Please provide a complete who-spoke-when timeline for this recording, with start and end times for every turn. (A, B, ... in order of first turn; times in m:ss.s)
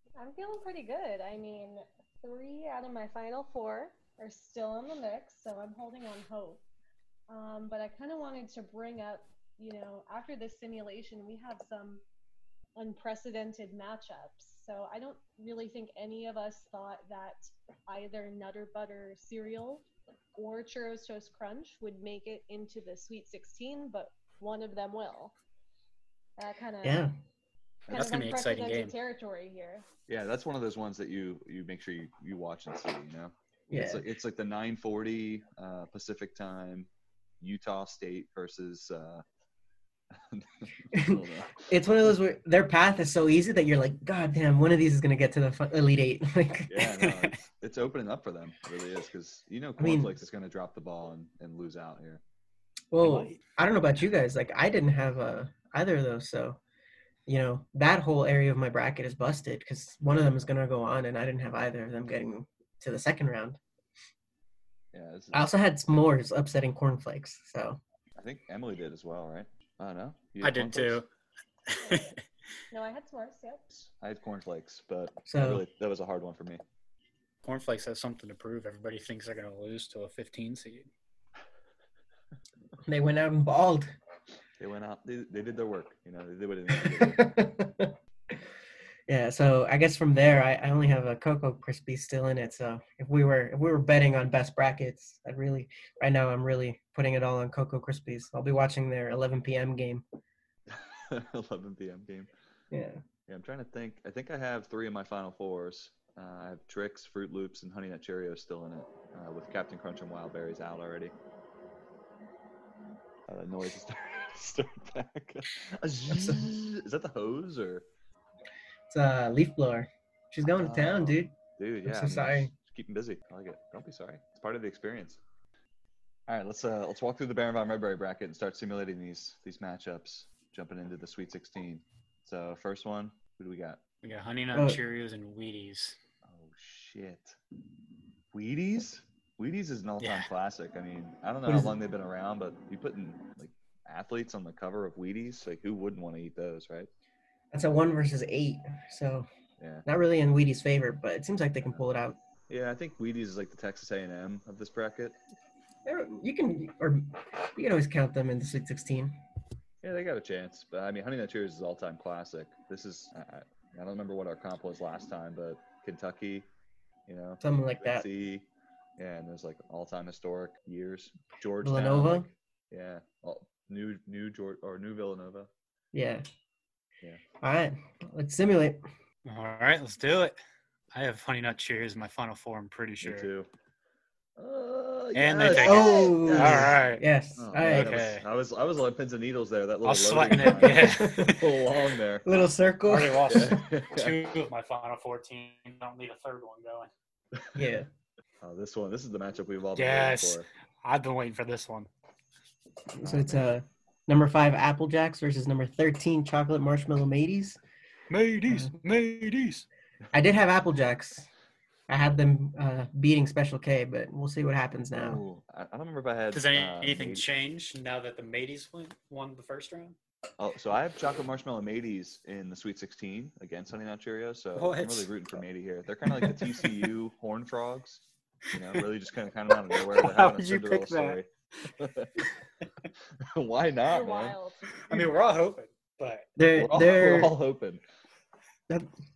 0:00.2-0:06.6 A
0:07.3-0:12.0 A
0:12.8-0:25.3 A
0:26.4-0:27.1 A
0:26.8-0:27.1 B
0:27.9-0:28.9 C
0:27.9-0:29.8 A
0:30.1-0:36.9 D
0:33.7-0:34.0 B
0:37.4-0:39.2 D
0:40.1-0:41.7 D
0:40.9-0:47.0 B
0:46.7-0:52.2 D
0:49.8-0:50.1 B
0:52.9-0:56.6 B
0:53.0-0:53.4 C
0:57.3-1:03.6 B
1:04.9-1:05.5 D
1:05.3-1:07.8 B
1:08.2-1:11.0 D
1:10.4-1:11.1 C
1:11.7-1:12.2 C
1:11.8-1:12.1 A
1:12.7-1:13.7 A
1:13.7-1:16.6 D
1:15.3-1:15.6 B
1:17.4-1:20.9 C
1:22.8-1:23.9 B
1:24.6-1:27.3 D
1:26.8-1:27.9 B
1:29.1-1:40.0 B
1:40.7-1:42.3 D
1:42.7-1:43.0 B
1:43.3-1:51.1 D
1:53.3-1:57.8 D
1:56.1-1:56.4 B
1:58.9-2:01.3 B
2:00.5-2:05.2 D
2:01.8-2:02.5 B
2:06.3-2:13.8 D
2:14.0-2:16.0 C
2:14.5-2:14.8 B
2:16.2-2:17.4 D
2:18.3-2:26.9 D
2:20.0-2:20.3 C
2:21.4-2:21.8 B
2:27.5-2:29.3 B
2:29.6-2:29.8 D
2:29.8-2:32.2 B
2:32.5-2:35.2 D
2:35.8-2:39.2 B
2:39.8-2:46.5 D
2:47.1-2:48.5 D
2:47.4-2:48.0 B
2:49.0-2:55.5 D
2:51.6-2:52.2 B
2:55.9-2:56.2 B
2:57.4-2:58.8 B
2:59.2-3:00.4 C
3:00.9-3:03.3 C
3:03.0-3:03.5 D
3:04.4-3:06.8 D
3:05.1-3:07.0 C
3:05.5-3:06.2 A
3:05.6-3:07.9 B
3:07.4-3:12.5 D
3:07.7-3:08.2 C
3:09.8-3:11.5 C
3:10.5-3:11.4 B
3:12.2-3:13.6 B
3:12.8-3:16.9 C
3:13.3-3:14.4 D
3:17.5-3:17.9 B
3:18.4-3:20.5 D
3:19.8-3:21.9 C
3:22.9-3:27.6 B
3:23.0-3:23.6 D
3:28.1-3:29.6 C
3:30.1-3:31.3 B
3:31.9-3:35.2 B
3:34.9-3:37.2 D
3:36.3-3:40.0 C
3:40.4-3:52.2 D
3:44.5-3:45.2 C
3:49.7-3:51.2 C
3:53.2-3:54.4 D
3:53.8-3:54.7 A
3:54.8-3:56.3 C
3:56.4-3:57.4 B
3:56.5-3:57.8 D